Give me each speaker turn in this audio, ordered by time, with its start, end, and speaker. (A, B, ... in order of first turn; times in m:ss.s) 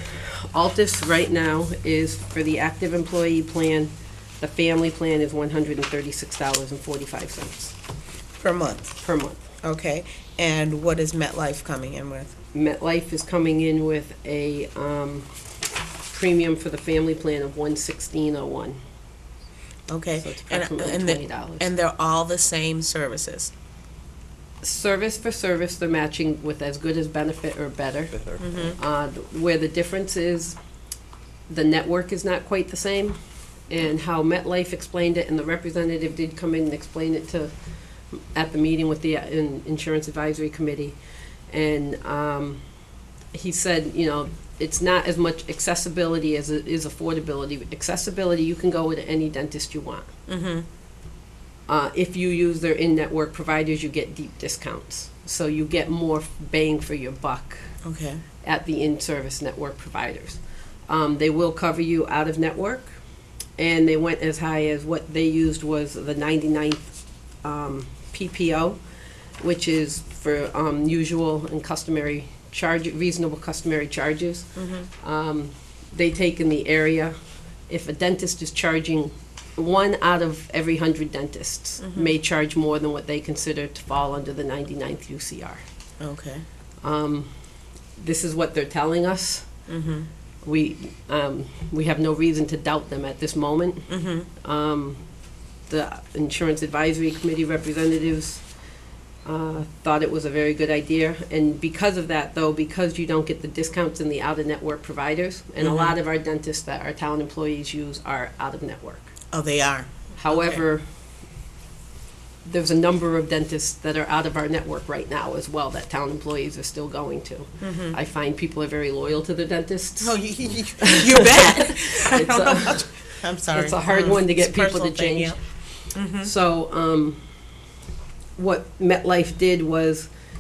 0:00.5-0:07.8 A
0:08.4-0:09.0 B
0:09.0-0:09.5 A
0:09.6-0:12.3 B
0:12.5-0:15.3 A
0:16.1-0:18.8 A
0:19.9-0:23.5 B
0:20.2-0:21.7 A
0:24.6-0:30.6 A
0:28.4-0:28.8 B
0:31.5-0:33.2 A
0:33.7-0:37.5 A
0:38.1-0:41.0 A
0:41.5-0:42.6 A
0:43.3-0:50.1 A
0:50.3-0:50.6 B
0:51.7-0:57.7 A
0:57.8-0:58.2 B
0:58.4-1:03.0 A
1:03.6-1:08.8 A
1:09.4-1:17.2 A
1:14.6-1:14.9 B
1:17.7-1:25.6 A
1:21.8-1:22.1 B
1:26.0-1:26.4 B
1:26.8-1:27.3 A
1:28.0-1:29.5 A
1:29.7-1:30.1 B
1:30.4-1:35.0 A
1:33.9-1:34.3 B
1:35.7-1:38.4 A
1:39.2-1:49.1 A
1:45.6-1:46.0 B
1:49.3-1:50.6 B
1:50.2-1:50.8 A
1:52.4-2:07.2 A
1:57.6-1:58.0 B
2:00.0-2:06.3 B
2:08.4-2:10.1 A